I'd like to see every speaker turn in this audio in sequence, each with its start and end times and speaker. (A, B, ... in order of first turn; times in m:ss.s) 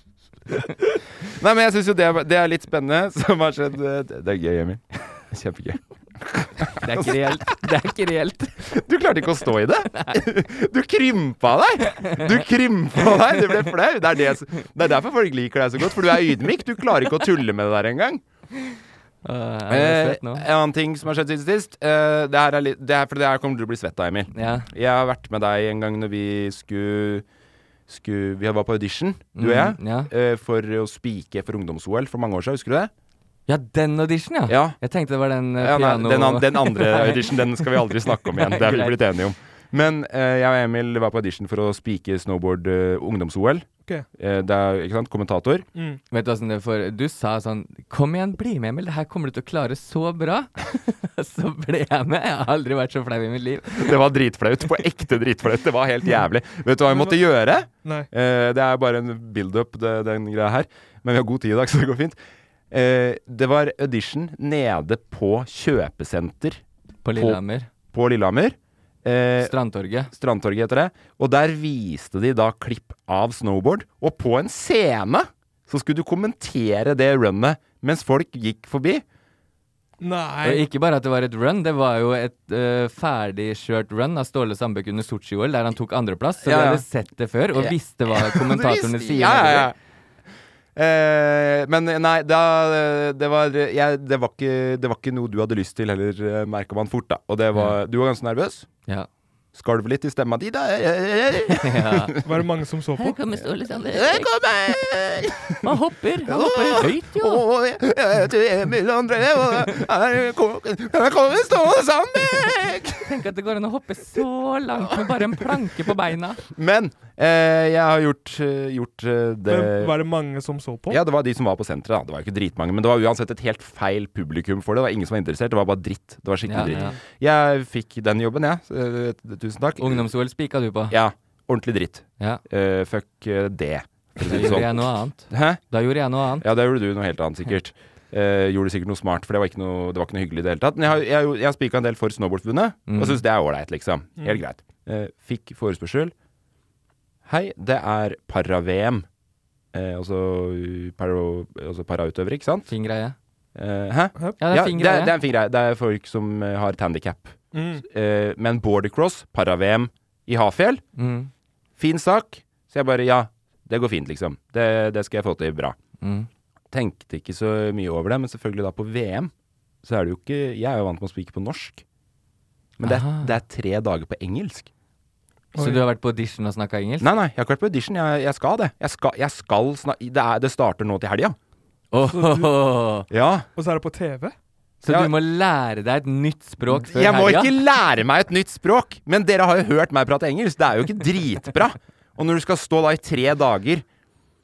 0:01.3-0:07.6 A
0:06.8-0:08.6 B
0:08.6-0:18.2 A
0:19.2-0:20.4 B
0:19.7-0:27.2 A
0:24.3-0:24.7 B
0:27.9-0:32.9 A
0:29.4-0:30.1 B
0:33.5-0:39.0 B
0:34.5-0:34.8 A
0:35.6-0:45.6 A
0:45.7-0:46.0 C
0:46.1-0:53.9 B
0:53.7-1:02.2 A
0:56.9-0:57.2 C
0:57.8-0:58.1 C
1:02.7-1:06.6 A
1:07.0-1:07.7 B
1:07.1-1:07.4 A
1:07.9-1:09.5 A
1:09.4-1:10.1 B
1:10.1-1:19.0 A
1:20.0-1:20.6 C
1:20.4-1:29.7 B
1:26.4-1:26.8 A
1:27.5-1:29.7 A
1:30.7-1:38.7 A
1:39.5-1:42.2 A
1:41.6-1:42.1 B
1:42.2-1:43.2 C
1:43.0-1:44.3 B
1:43.4-1:53.1 A
1:45.6-1:47.4 B
1:53.0-1:56.4 B
1:54.9-1:55.4 A
1:56.5-1:59.9 A
1:59.5-2:01.0 C
2:00.9-2:10.1 A
2:06.4-2:07.0 B
2:06.6-2:06.9 C
2:09.8-2:11.0 B
2:10.9-2:15.6 A
2:14.2-2:16.4 B
2:16.4-2:26.1 A
2:22.9-2:23.2 B
2:27.2-2:29.0 A
2:29.7-2:32.7 A
2:32.7-2:33.1 B
2:33.5-2:40.8 A
2:34.4-2:35.2 B
2:37.5-2:37.8 C
2:41.0-2:41.3 B
2:41.8-2:45.8 A
2:46.0-2:46.3 B
2:46.7-2:49.3 A
2:49.8-2:51.8 A
2:52.8-2:54.7 A
2:52.8-2:53.3 B
2:55.6-2:55.8 C
2:55.6-2:57.1 B
2:57.0-3:01.4 A
3:01.9-3:03.1 B
3:02.0-3:02.5 C
3:03.1-3:03.5 A
3:03.5-3:04.3 C
3:04.8-3:07.6 B
3:04.9-3:05.1 A
3:06.7-3:13.8 A